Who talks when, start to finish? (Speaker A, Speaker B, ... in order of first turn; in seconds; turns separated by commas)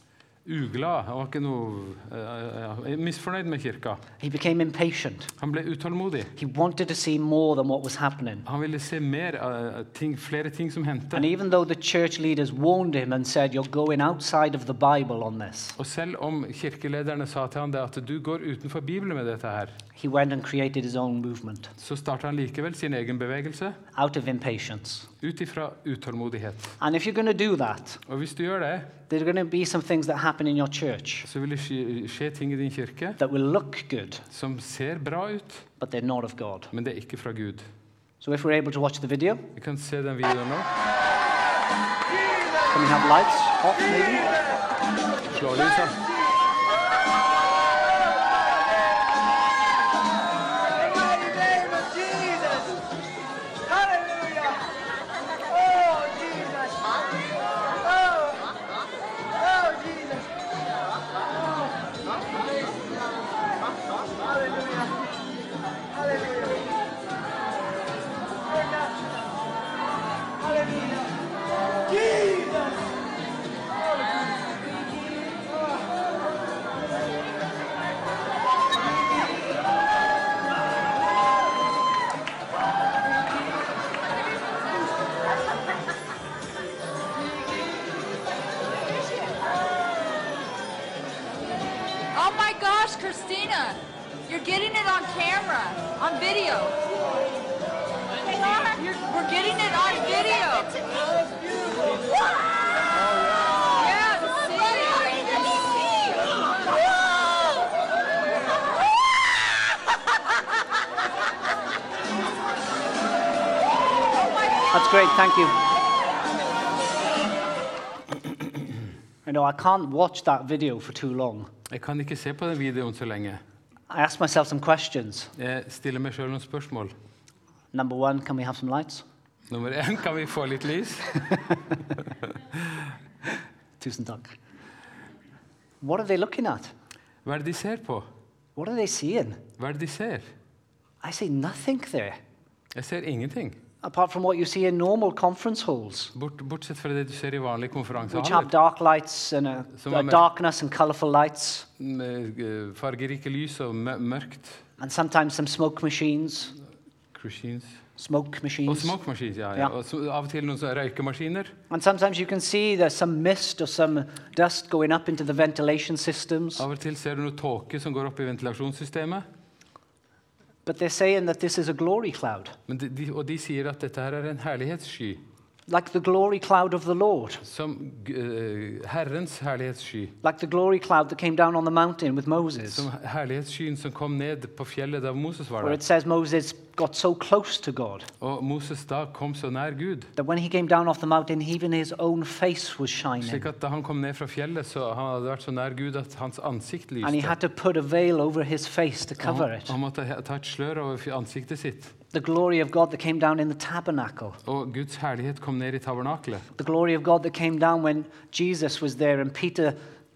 Speaker A: 0.4-4.0, Speaker B: 4.2-5.3, Speaker A: 5.4-6.3, Speaker B: 6.3-8.4, Speaker A: 8.4-11.3, Speaker B: 11.1-15.8, Speaker A: 15.8-19.8, Speaker B: 19.9-21.7, Speaker A: 21.8-23.8, Speaker B: 23.9-25.1, Speaker A: 25.2-26.8, Speaker B: 26.8-28.0, Speaker A: 28.1-28.9, Speaker B: 29.1-31.3, Speaker A: 31.2-33.2, Speaker B: 33.2-34.2, Speaker A: 34.3-35.7, Speaker B: 35.8-36.7, Speaker A: 36.7-37.7, Speaker B: 38.2-39.5, Speaker A: 39.5-40.7, Speaker B: 42.7-44.3, Speaker A: 45.3-46.0, Speaker C: 92.1-96.8, Speaker C: 98.2-100.9, Speaker C: 103.7-105.7, Speaker B: 114.7-115.6, Speaker B: 119.2-121.5, Speaker A: 121.7-123.4, Speaker B: 123.9-125.3, Speaker A: 125.3-126.9, Speaker B: 127.7-129.0, Speaker A: 129.5-131.4, Speaker A: 132.0-132.9, Speaker B: 133.8-134.3, Speaker B: 135.8-136.7, Speaker A: 137.2-138.1, Speaker B: 138.6-139.4, Speaker A: 139.6-140.3, Speaker B: 141.0-142.2, Speaker A: 142.7-143.6, Speaker B: 143.8-146.1, Speaker A: 146.1-148.5, Speaker B: 148.1-151.7, Speaker A: 149.8-150.2, Speaker A: 151.8-154.6, Speaker B: 154.8-156.6, Speaker A: 157.1-157.8, Speaker B: 157.9-158.9, Speaker A: 158.7-161.5, Speaker B: 161.7-166.6, Speaker A: 166.6-169.2, Speaker B: 170.6-172.6, Speaker A: 172.7-175.2, Speaker B: 175.7-177.4, Speaker A: 177.4-180.1, Speaker B: 180.2-182.9, Speaker A: 182.7-185.8, Speaker B: 185.6-188.1, Speaker A: 188.2-190.1, Speaker B: 190.2-193.4, Speaker A: 193.2-197.3, Speaker B: 197.0-199.7, Speaker A: 199.2-201.9, Speaker B: 202.1-204.4, Speaker A: 204.4-206.5, Speaker B: 206.5-209.8